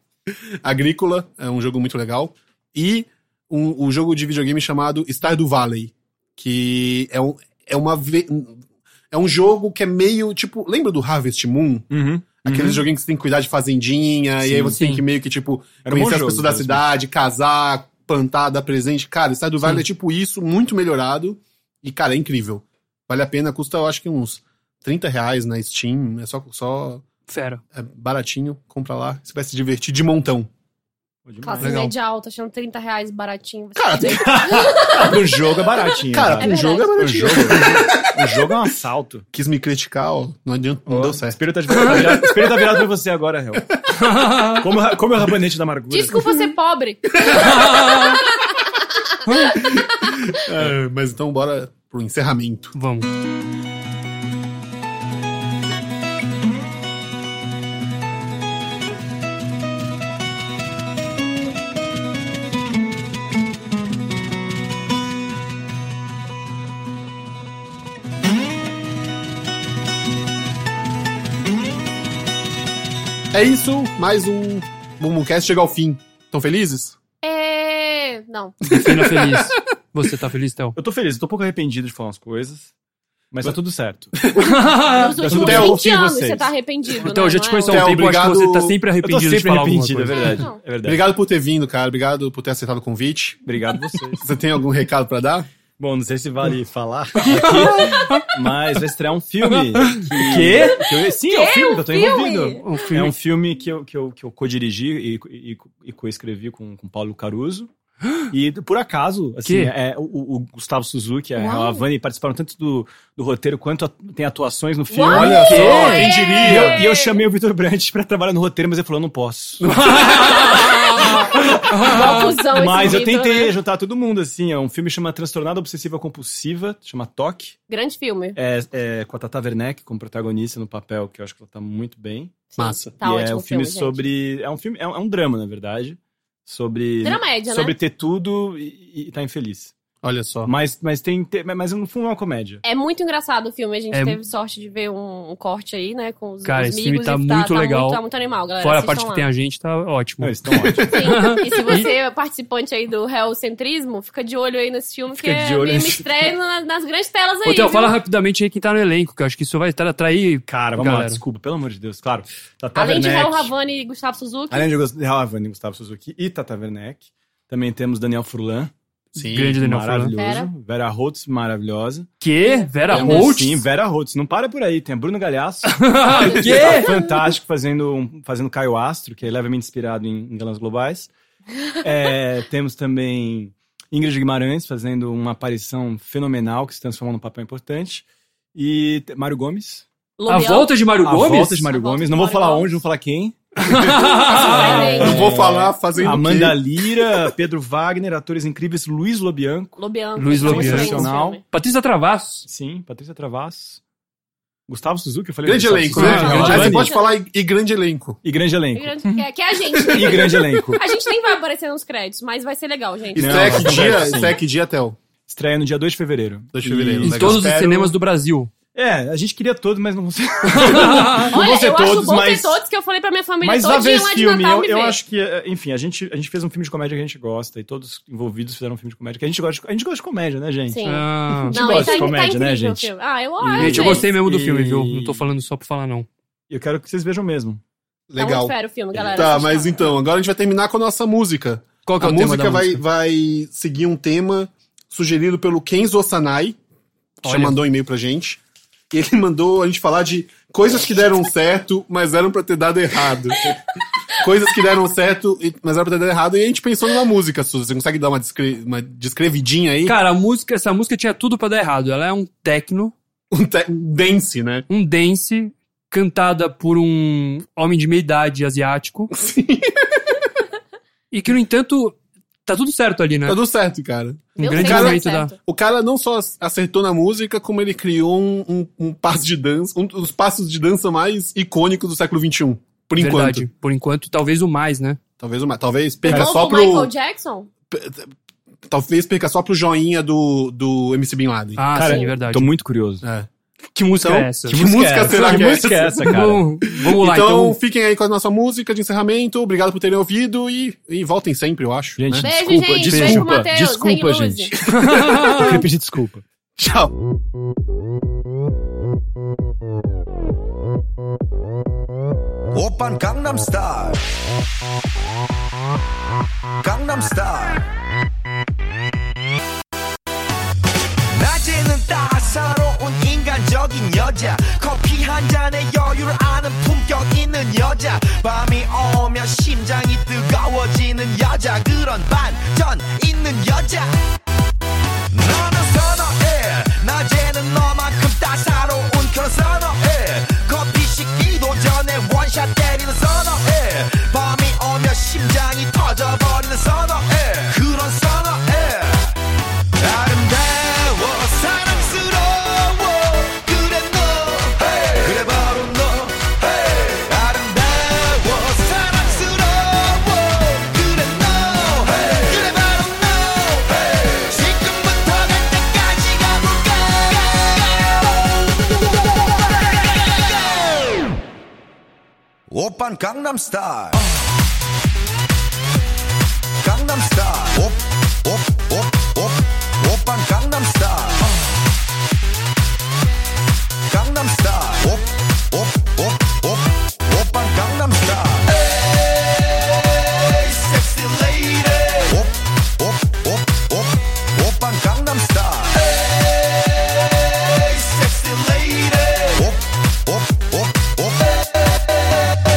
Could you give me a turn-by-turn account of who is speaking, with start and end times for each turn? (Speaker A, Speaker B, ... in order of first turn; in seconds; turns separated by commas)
Speaker A: 0.3-11.9, Speaker B: 11.9-12.8, Speaker A: 12.4-27.0, Speaker B: 14.4-14.8, Speaker C: 14.8-15.0, Speaker B: 15.8-16.9, Speaker C: 27.3-27.6, Speaker A: 27.7-30.5, Speaker B: 31.2-31.8, Speaker D: 31.4-37.6, Speaker C: 31.6-31.9, Speaker A: 33.8-35.0, Speaker B: 34.2-39.3, Speaker A: 36.1-38.2, Speaker A: 39.3-42.7, Speaker B: 40.9-46.3, Speaker C: 44.0-44.7, Speaker D: 45.9-47.3, Speaker A: 47.2-47.9, Speaker C: 47.3-48.2, Speaker C: 49.3-49.6, Speaker A: 49.5-52.8, Speaker C: 52.8-53.1, Speaker A: 73.3-77.0, Speaker D: 77.2-78.6, Speaker C: 78.7-80.8, Speaker A: 78.7-79.6, Speaker B: 80.8-82.7, Speaker B: 83.3-84.1, Speaker A: 84.2-84.6, Speaker C: 84.4-85.5, Speaker D: 84.8-88.1, Speaker B: 85.2-86.5, Speaker A: 85.3-85.7, Speaker C: 87.0-90.4, Speaker A: 87.7-88.8, Speaker B: 89.0-91.0, Speaker D: 90.1-90.6, Speaker A: 90.8-93.4, Speaker B: 93.5-94.2, Speaker A: 94.2-95.5, Speaker B: 95.8-107.7, Speaker C: 97.3-98.3, Speaker C: 99.5-100.8, Speaker D: 100.5-102.8, Speaker C: 102.6-103.1, Speaker B: 108.3-127.6, Speaker C: 109.5-109.7, Speaker D: 111.4-111.8, Speaker D: 114.9-117.2, Speaker A: 115.1-116.4, Speaker C: 115.1-116.8, Speaker A: 119.6-120.0, Speaker C: 119.8-122.3, Speaker D: 121.8-123.6, Speaker D: 127.7-128.4, Speaker B: 128.3-132.4, Speaker D: 132.5-134.1, Speaker A: 132.6-132.9, Speaker B: 133.0-139.7, Speaker D: 137.0-137.8, Speaker A: 140.0-140.5, Speaker B: 140.4-142.6, Speaker D: 142.6-149.3, Speaker C: 143.9-144.2, Speaker C: 146.4-148.0, Speaker C: 148.6-150.3, Speaker B: 150.2-150.9, Speaker A: 150.8-151.0, Speaker D: 150.9-158.0, Speaker C: 151.1-151.9, Speaker B: 155.1-156.3, Speaker C: 157.4-161.2, Speaker B: 160.5-163.5, Speaker D: 162.8-164.7, Speaker B: 164.5-168.7, Speaker A: 169.2-169.6, Speaker C: 169.2-170.2, Speaker B: 169.6-172.1, Speaker D: 170.2-170.5, Speaker C: 172.2-173.7, Speaker D: 172.4-173.3, Speaker B: 172.9-181.1, Speaker C: 175.7-177.0, Speaker A: 176.2-176.7, Speaker B: 181.8-189.9, Speaker D: 190.2-190.7, Speaker C: 190.3-191.7, Speaker B: 191.0-193.4, Speaker D: 191.7-192.8, Speaker C: 193.6-195.0, Speaker D: 194.1-195.3, Speaker B: 194.4-201.4, Speaker A: 194.9-197.2, Speaker D: 199.8-201.4, Speaker C: 200.2-202.5, Speaker B: 202.5-203.8, Speaker B: 204.7-206.9, Speaker A: 205.4-208.2, Speaker C: 205.9-206.8, Speaker D: 206.0-207.1, Speaker B: 208.2-209.0, Speaker D: 208.8-213.5, Speaker B: 209.8-210.8, Speaker A: 213.1-215.0, Speaker B: 213.2-214.4, Speaker B: 215.3-217.5, Speaker A: 216.5-217.9, Speaker C: 217.0-218.5, Speaker B: 218.7-222.6, Speaker C: 220.5-221.3, Speaker D: 221.3-225.0, Speaker B: 223.4-235.3, Speaker D: 230.7-234.1, Speaker C: 230.9-232.1, Speaker C: 233.6-236.1, Speaker B: 236.5-237.6, Speaker A: 238.1-238.5, Speaker D: 238.2-239.8, Speaker B: 238.9-239.2, Speaker A: 239.1-246.6, Speaker C: 241.9-242.8, Speaker A: 247.2-248.4, Speaker C: 247.2-247.6, Speaker A: 248.9-253.5, Speaker A: 254.2-260.0, Speaker C: 259.9-262.9, Speaker A: 263.3-264.7, Speaker C: 264.7-269.1, Speaker A: 269.2-270.1, Speaker C: 271.1-273.4, Speaker A: 273.3-283.5, Speaker D: 274.4-275.4, Speaker C: 274.4-275.3, Speaker C: 283.0-285.0, Speaker A: 285.2-286.9, Speaker D: 286.0-287.5, Speaker B: 286.1-286.4, Speaker A: 287.7-288.1, Speaker A: 288.7-291.7, Speaker C: 291.6-292.5, Speaker B: 291.7-293.1, Speaker A: 293.0-293.3, Speaker C: 293.7-294.6, Speaker A: 294.0-302.3, Speaker B: 294.4-296.5, Speaker C: 295.1-297.6, Speaker B: 302.0-306.2, Speaker D: 302.2-304.5, Speaker C: 302.9-303.3, Speaker A: 304.7-305.5, Speaker C: 304.8-305.6, Speaker A: 306.6-306.9, Speaker E: 312.5-314.0, Speaker E: 316.6-317.7, Speaker E: 321.1-334.0, Speaker E: 335.1-349.2, Speaker E: 349.8-371.0, Speaker E: 372.5-374.1, Speaker E: 376.6-381.4, Speaker E: 383.9-401.7